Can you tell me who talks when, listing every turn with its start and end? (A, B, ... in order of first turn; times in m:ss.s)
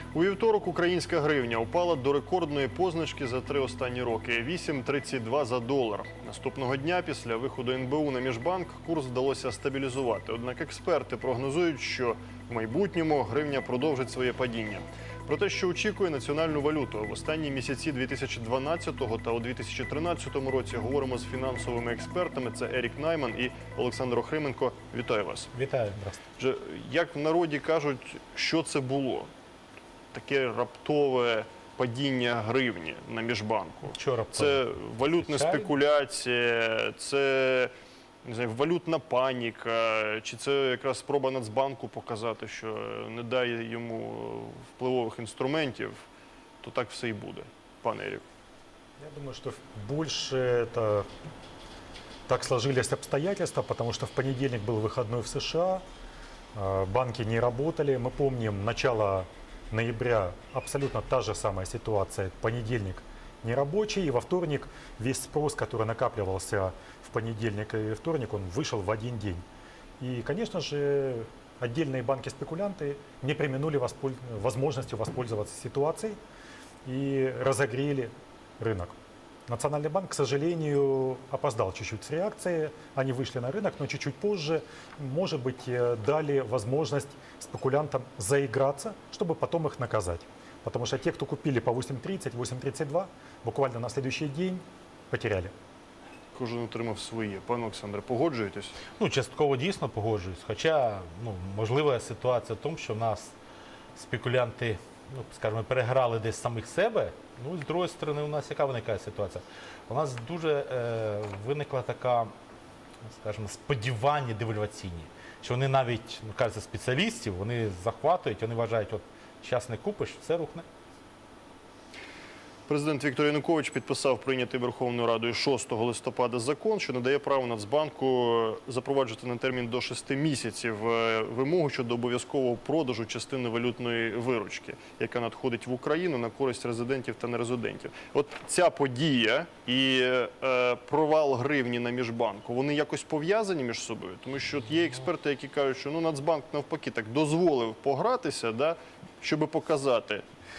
0:00.1-0:25.5 A
0:25.5-0:26.2 B
0:26.4-0:29.3 A
0:30.1-0:37.7 A
0:33.9-0:35.7 B
0:38.2-0:46.0 A
0:46.6-0:48.2 A
0:49.0-0:51.1 C
0:52.3-0:55.8 C
0:56.5-1:09.4 C
1:10.0-1:16.2 C
1:16.8-1:35.5 C
1:36.3-1:38.8 A
1:39.0-1:43.3 B
1:43.9-1:52.3 B
1:53.1-2:00.6 B
2:02.7-2:30.2 A